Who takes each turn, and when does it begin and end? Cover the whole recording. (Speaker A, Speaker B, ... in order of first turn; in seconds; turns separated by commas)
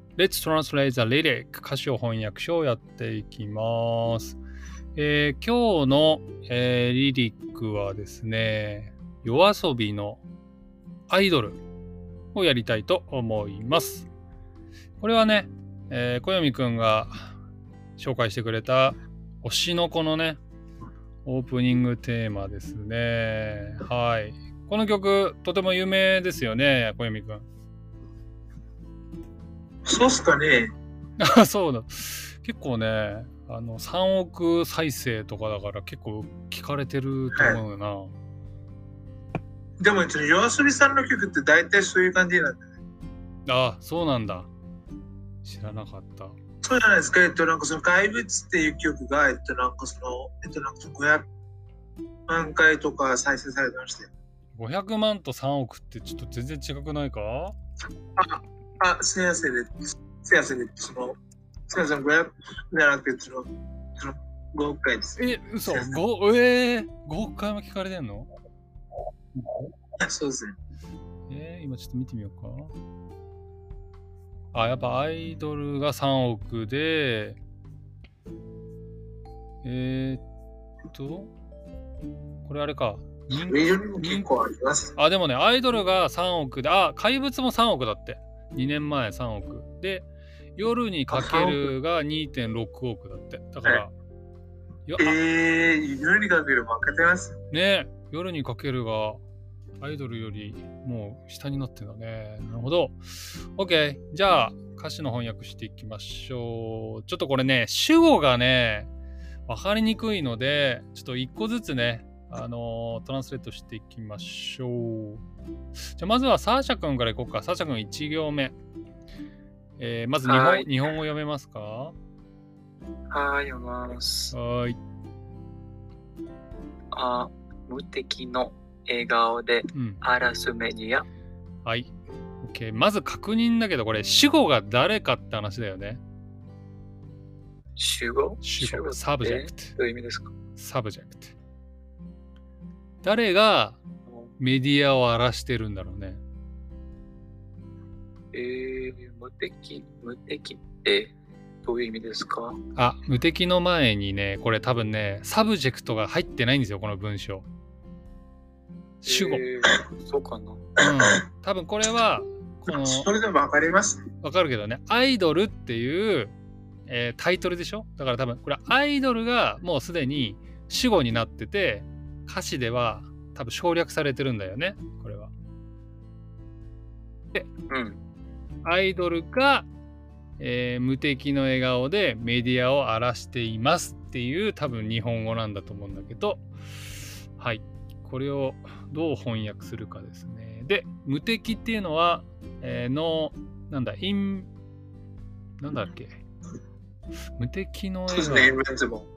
Speaker A: 0.1-4.4, Speaker A: 4.9-10.2, Speaker A: 11.1-11.6, Speaker A: 12.3-14.1, Speaker A: 15.0-17.3, Speaker A: 18.0-20.4, Speaker A: 21.2-27.4, Speaker B: 29.9-30.7, Speaker A: 31.2-38.1, Speaker B: 37.3-37.6, Speaker B: 39.8-42.7, Speaker A: 43.5-44.5, Speaker A: 45.4-46.4, Speaker B: 46.6-51.2, Speaker B: 52.3-54.1, Speaker A: 54.5-57.6, Speaker B: 58.2-61.2, Speaker B: 61.7-66.0, Speaker A: 65.2-68.3, Speaker A: 69.3-69.7, Speaker B: 70.0-70.5, Speaker A: 71.3-72.7, Speaker A: 74.5-77.4, Speaker A: 79.6-80.2, Speaker A: 80.9-81.3, Speaker A: 82.4-84.3, Speaker B: 83.3-85.0, Speaker A: 85.0-93.9, Speaker B: 91.1-91.6, Speaker A: 94.9-95.2, Speaker B: 95.0-97.4, Speaker A: 97.5-99.2, Speaker A: 99.8-108.9, Speaker A: 109.5-115.2, Speaker A: 115.9-118.5, Speaker A: 119.8-121.9, Speaker C: 120.2-120.7, Speaker C: 123.1-124.3, Speaker A: 124.3-124.8, Speaker C: 126.9-131.1, Speaker A: 129.7-130.0, Speaker A: 131.6-136.0, Speaker C: 137.8-140.3, Speaker A: 138.4-139.7, Speaker A: 140.6-141.3, Speaker A: 143.0-143.8, Speaker A: 144.4-146.2, Speaker C: 148.3-151.1, Speaker C: 151.6-152.6, Speaker A: 152.8-157.5, Speaker A: 159.0-159.4, Speaker C: 159.1-160.6, Speaker A: 160.8-163.1, Speaker B: 160.8-161.2, Speaker B: 162.7-164.0, Speaker A: 164.2-166.3, Speaker A: 166.9-175.3, Speaker C: 177.7-178.0, Speaker A: 178.6-179.7, Speaker A: 180.4-186.4, Speaker A: 187.3-194.5, Speaker A: 195.6-196.2, Speaker A: 197.3-198.6, Speaker B: 198.1-199.1